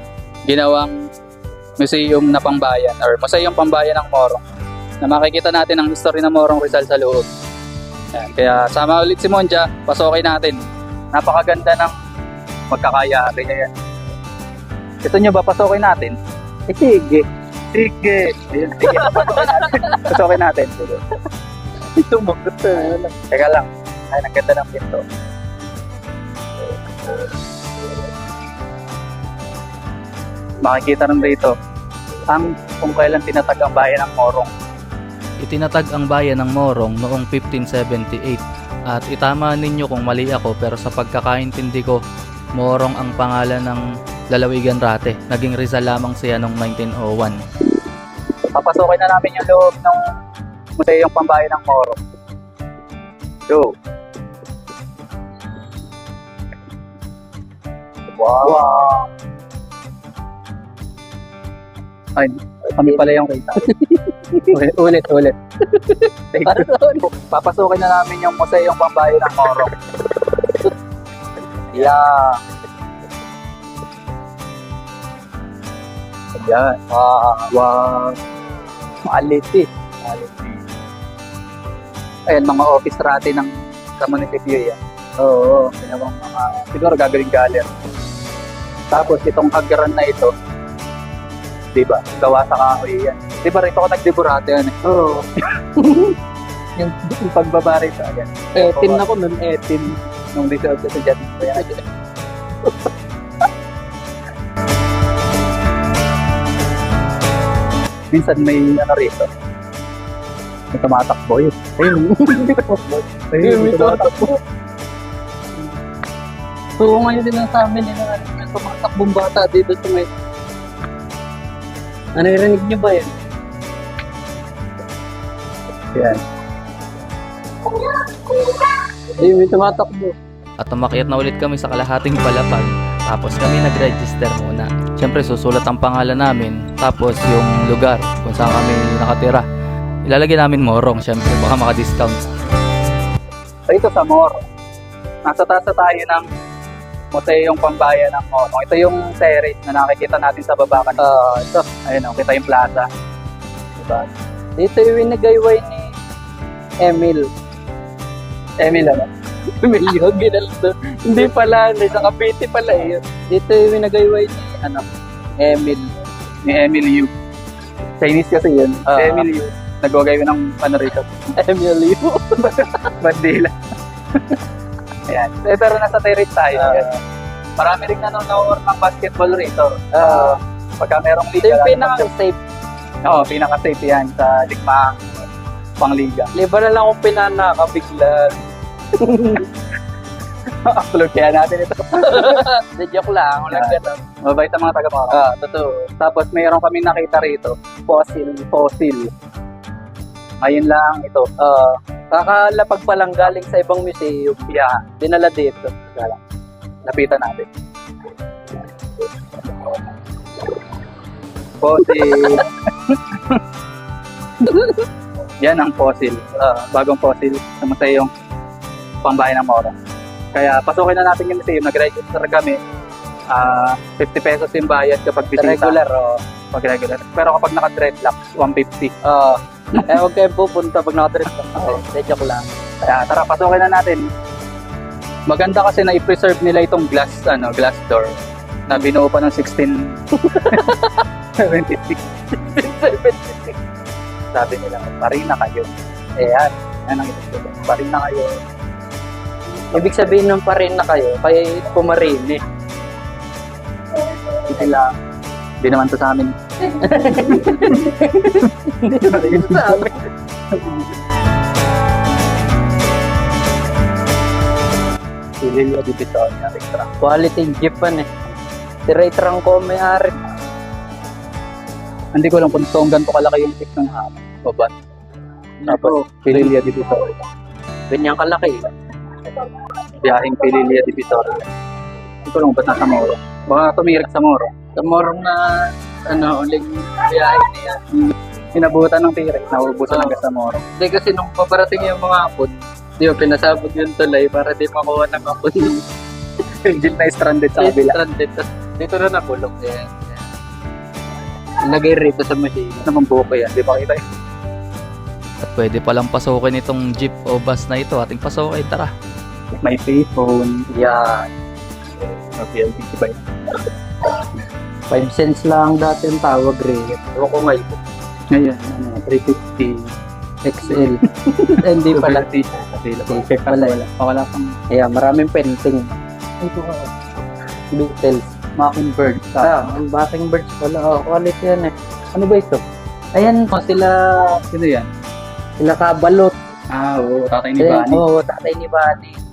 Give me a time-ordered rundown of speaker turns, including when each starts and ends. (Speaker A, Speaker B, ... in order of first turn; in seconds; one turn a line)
Speaker A: 0.5-0.9
Speaker A: 1.8-4.4
Speaker A: 5.0-7.3
Speaker A: 8.1-10.6
Speaker A: 11.1-11.9
Speaker A: 12.7-13.7
Speaker A: 15.0-16.2
Speaker B: 16.7-17.3
Speaker A: 17.7-21.0
Speaker B: 18.8-20.1
Speaker B: 21.9-23.1
Speaker A: 23.3-25.0
Speaker A: 30.6-31.5
Speaker A: 32.3-34.5
Speaker C: 35.4-42.0
Speaker C: 42.6-47.4
Speaker A: 48.5-50.0
Speaker A: 50.8-52.0
Speaker A: 53.5-53.7
Speaker A: 58.2-59.1
Speaker A: 62.2-63.6
Speaker B: 62.8-63.1
Speaker B: 63.6-67.1
Speaker A: 64.5-65.2
Speaker A: 66.3-69.7
Speaker A: 71.7-72.1
Speaker B: 71.7-72.2
Speaker A: 76.4-76.8
Speaker B: 76.9-77.5
Speaker A: 77.5-78.2
Speaker A: 79.1-80.6
Speaker A: 82.3-84.8
Speaker B: 85.2-85.8
Speaker A: 85.8-87.7
Speaker A: 88.9-90.3
Speaker A: 91.8-94.8
Speaker B: 94.8-96.2
Speaker A: 96.8-99.0
Speaker B: 98.5-100.0
Speaker A: 100.3-101.7
Speaker A: 108.1-109.3
Speaker A: 110.7-111.7
Speaker B: 111.8-112.9
Speaker A: 113.3-114.3
Speaker B: 113.4-114.4
Speaker B: 116.8-120.1
Speaker B: 122.2-123.1
Speaker A: 125.9-126.2
Speaker B: 129.2-130.2
Speaker C: 130.6-139.4
Speaker C: 140.1-142.4
Speaker A: 143.7-144.4
Speaker A: 145.3-146.3
Speaker A: 147.1-151.2
Speaker B: 151.0-151.7
Speaker A: 151.9-152.9
Speaker A: 153.8-154.1
Speaker B: 154.6-155.9
Speaker B: 156.8-157.3
Speaker A: 158.6-159.1
Speaker B: 159.6-164.9
Speaker B: 165.4-165.9
Speaker A: 166.4-167.1
Speaker A: 168.0-171.1
Speaker B: 168.9-169.3
Speaker B: 171.4-172.9
Speaker A: 173.0-173.5
Speaker A: 175.1-176.9
Speaker B: 176.6-176.9
Speaker A: 177.6-182.1
Speaker B: 180.0-180.4
Speaker B: 181.4-182.4
Speaker A: 183.0-185.1
Speaker A: 185.8-186.3
Speaker B: 186.3-188.4
Speaker B: 188.9-189.5
Speaker A: 190.6-192.5
Speaker B: 192.0-194.0
Speaker A: 193.5-195.2
Speaker B: 195.1-195.9
Speaker A: 196.0-197.6
Speaker B: 197.9-198.9
Speaker A: 198.7-199.1
Speaker A: 200.4-201.3
Speaker B: 201.4-205.8
Speaker A: 204.5-204.8
Speaker A: 206.9-207.5
Speaker A: 211.6-213.4
Speaker B: 211.9-212.4
Speaker A: 215.4-218.1
Speaker A: 219.0-219.7
Speaker A: 220.3-222.6
Speaker A: 223.3-225.8
Speaker B: 225.4-226.2
Speaker A: 226.5-228.9
Speaker B: 229.0-232.5
Speaker A: 232.8-234.1
Speaker A: 235.3-238.1
Speaker A: 238.7-240.0
Speaker B: 240.2-241.0
Speaker A: 241.4-242.0
Speaker B: 242.3-243.6
Speaker A: 244.3-245.7
Speaker B: 246.2-246.5
Speaker A: 246.9-248.4
Speaker B: 249.7-252.4
Speaker A: 254.5-254.9
Speaker A: 255.6-256.4
Speaker B: 256.7-260.1
Speaker A: 257.1-257.9
Speaker A: 259.1-259.9
Speaker A: 260.5-260.8
Speaker A: 265.4-266.9
Speaker B: 267.0-268.1
Speaker B: 268.9-270.2
Speaker A: 272.1-274.7
Speaker B: 275.6-276.5
Speaker A: 275.7-277.1
Speaker B: 277.9-278.7
Speaker A: 280.0-281.5
Speaker A: 282.3-284.5
Speaker B: 284.8-287.8
Speaker A: 287.9-290.6
Speaker B: 290.8-295.8
Speaker A: 296.6-298.0
Speaker B: 297.6-300.3
Speaker B: 301.6-302.9
Speaker A: 302.9-304.0
Speaker C: 305.4-308.9
Speaker A: 309.6-310.6
Speaker B: 310.7-311.3
Speaker A: 312.4-313.3
Speaker B: 314.9-317.8
Speaker A: 318.3-319.9
Speaker B: 320.4-322.2
Speaker A: 320.7-320.9
Speaker A: 321.5-324.6
Speaker B: 323.1-323.8
Speaker B: 324.7-326.9
Speaker B: 327.7-328.3
Speaker A: 328.6-329.7
Speaker B: 329.4-331.7
Speaker A: 332.1-332.6
Speaker B: 333.1-334.4
Speaker A: 334.5-334.9
Speaker B: 335.6-336.4
Speaker A: 336.7-338.0
Speaker B: 337.6-339.2